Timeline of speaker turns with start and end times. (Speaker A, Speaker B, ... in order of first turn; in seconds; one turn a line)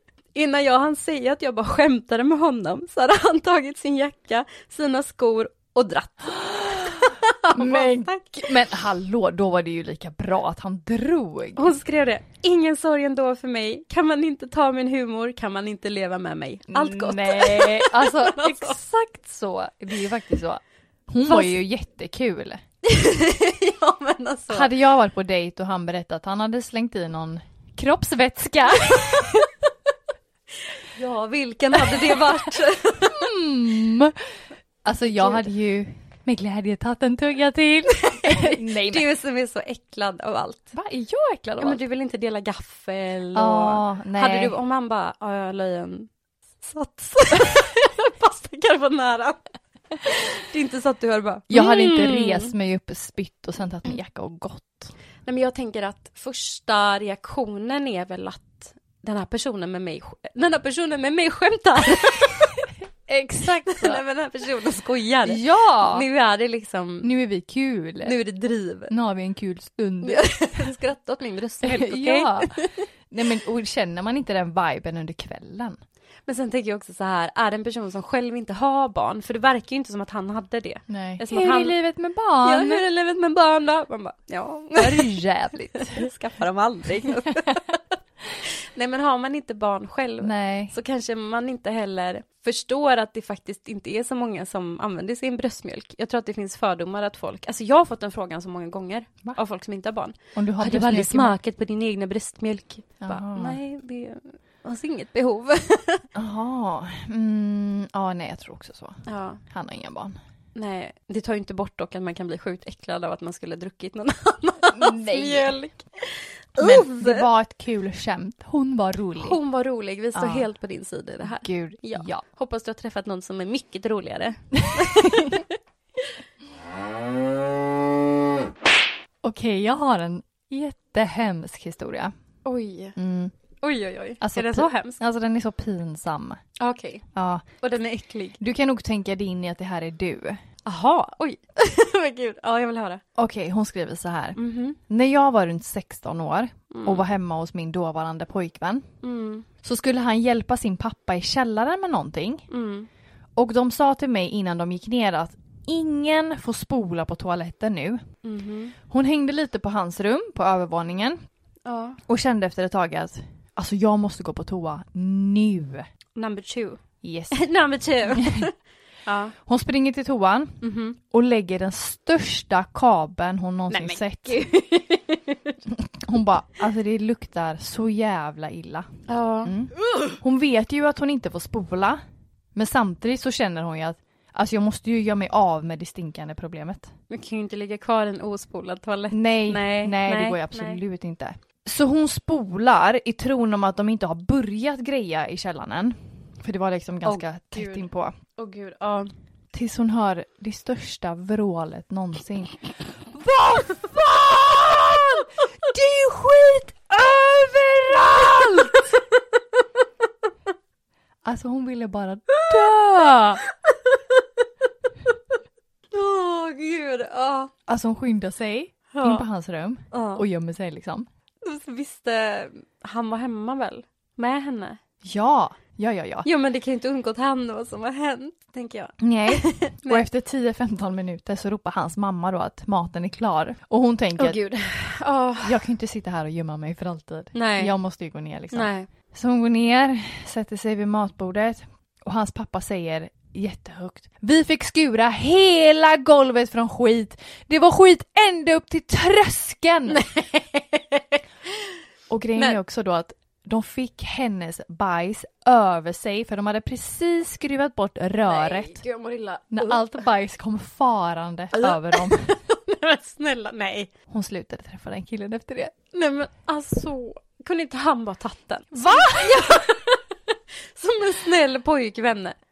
Speaker A: 0.3-8.5
Speaker B: 6.4-7.0
Speaker B: 7.5-11.7
Speaker A: 11.6-18.7
Speaker B: 16.7-22.6
Speaker A: 21.2-21.6
Speaker A: 22.8-24.7
Speaker B: 24.5-29.4
Speaker A: 29.0-29.4
Speaker A: 30.8-33.2
Speaker B: 31.8-32.2
Speaker B: 33.1-34.3
Speaker B: 34.9-39.1
Speaker A: 35.0-35.5
Speaker A: 38.0-40.7
Speaker B: 40.7-41.8
Speaker A: 41.6-46.1
Speaker B: 43.3-44.6
Speaker A: 46.6-49.4
Speaker A: 50.0-52.5
Speaker B: 51.5-54.9
Speaker A: 55.2-62.5
Speaker B: 63.1-64.0
Speaker A: 63.6-67.1
Speaker B: 65.2-66.1
Speaker B: 67.0-68.2
Speaker A: 68.0-68.9
Speaker B: 68.9-70.7
Speaker A: 70.0-72.8
Speaker B: 71.6-72.6
Speaker B: 73.1-75.8
Speaker A: 76.3-81.8
Speaker B: 80.9-82.8
Speaker A: 82.4-85.1
Speaker B: 84.8-86.1
Speaker A: 85.8-87.8
Speaker A: 88.4-106.1
Speaker B: 90.2-90.7
Speaker B: 100.3-101.4
Speaker B: 103.0-103.6
Speaker B: 106.1-110.2
Speaker A: 109.1-109.4
Speaker A: 110.5-117.3
Speaker B: 114.7-115.5
Speaker B: 116.6-119.4
Speaker A: 119.2-125.4
Speaker B: 120.1-120.5
Speaker B: 121.2-122.2
Speaker B: 124.6-125.4
Speaker B: 129.2-132.1
Speaker A: 132.4-133.0
Speaker B: 132.9-133.3
Speaker A: 133.6-135.0
Speaker B: 134.2-136.4
Speaker A: 136.6-137.1
Speaker B: 137.1-137.4
Speaker A: 137.6-138.4
Speaker B: 138.4-140.4
Speaker A: 140.6-143.0
Speaker B: 143.1-144.4
Speaker A: 144.4-144.8
Speaker B: 144.9-148.9
Speaker A: 146.7-147.0
Speaker A: 149.0-149.4
Speaker B: 149.6-152.5
Speaker A: 152.5-152.9
Speaker B: 153.4-158.0
Speaker A: 158.2-158.8
Speaker B: 158.9-161.2
Speaker A: 161.6-162.0
Speaker B: 162.1-165.8
Speaker A: 166.2-166.8
Speaker B: 167.0-167.4
Speaker A: 167.3-168.5
Speaker B: 168.1-168.5
Speaker A: 169.1-169.3
Speaker B: 169.4-174.4
Speaker A: 170.6-171.0
Speaker A: 173.7-175.6
Speaker B: 175.7-182.0
Speaker A: 179.1-179.5
Speaker B: 182.6-186.9
Speaker A: 187.1-190.8
Speaker B: 189.1-198.1
Speaker A: 197.1-199.1
Speaker B: 199.5-202.6
Speaker B: 203.2-208.6
Speaker B: 211.2-213.4
Speaker A: 212.4-212.8
Speaker A: 213.4-214.0
Speaker A: 215.9-217.5
Speaker B: 217.7-221.1
Speaker A: 218.9-219.3
Speaker A: 219.9-220.2
Speaker A: 221.4-224.8
Speaker B: 225.0-226.3
Speaker A: 226.2-230.1
Speaker B: 229.0-234.4
Speaker A: 234.2-235.6
Speaker B: 235.4-250.0
Speaker A: 237.3-237.8
Speaker A: 238.5-238.9
Speaker A: 249.9-251.2
Speaker B: 252.1-258.8
Speaker A: 258.2-259.9
Speaker B: 259.5-262.4
Speaker A: 261.5-263.9
Speaker B: 264.1-265.7
Speaker A: 265.9-270.0
Speaker B: 268.7-269.6
Speaker A: 270.8-272.4